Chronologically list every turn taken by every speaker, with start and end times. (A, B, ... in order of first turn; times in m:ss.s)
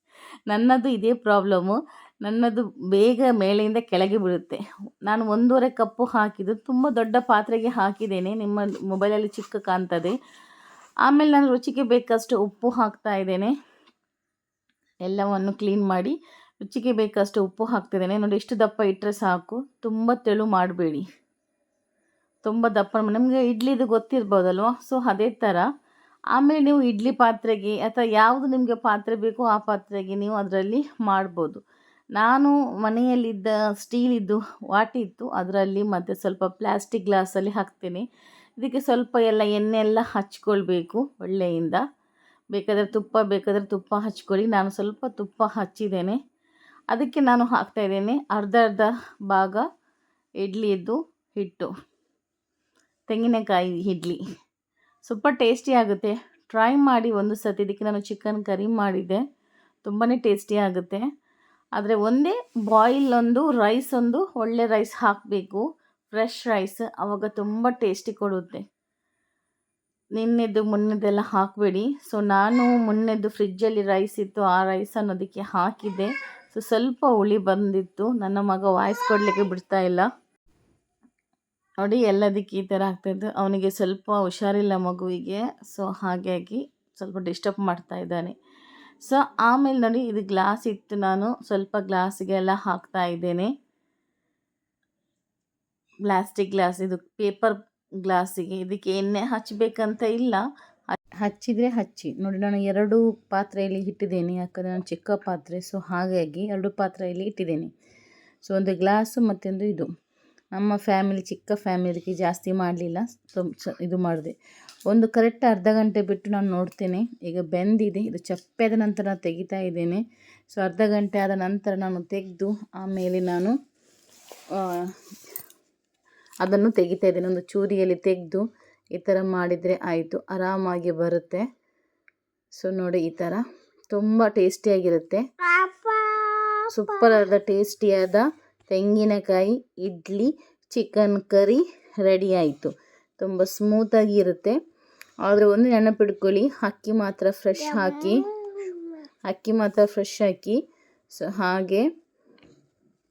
0:00.5-0:10.2 A
0:11.0-0:13.5 A
0:15.0-0:21.0 A
0:22.4-0:25.6 A
0:26.4-0:31.6 A
0:32.2-0:38.0 A
0:38.6-0:41.8 A
0:42.5-0:46.2 A
0:46.9-0:49.6 A
0:50.4-0:51.7 A
0:53.1-0:54.2 A
0:55.0-0:59.2 A
0:59.8-1:01.0 A
1:01.8-1:08.6 A
1:10.2-1:20.1 A
1:21.8-1:28.3 A
1:29.0-1:33.5 A
1:36.1-1:40.4 A
1:41.2-1:47.7 A
1:48.5-1:49.9 A
1:50.6-1:54.3 A
1:54.9-2:00.0 A
2:00.5-2:03.5 A
2:04.5-2:04.8 A
2:06.4-2:08.4 A
2:09.0-2:11.4 A
2:12.6-2:15.2 A
2:16.7-2:24.6 A
2:25.2-2:28.3 A
2:29.3-2:30.6 A
2:31.1-2:31.8 A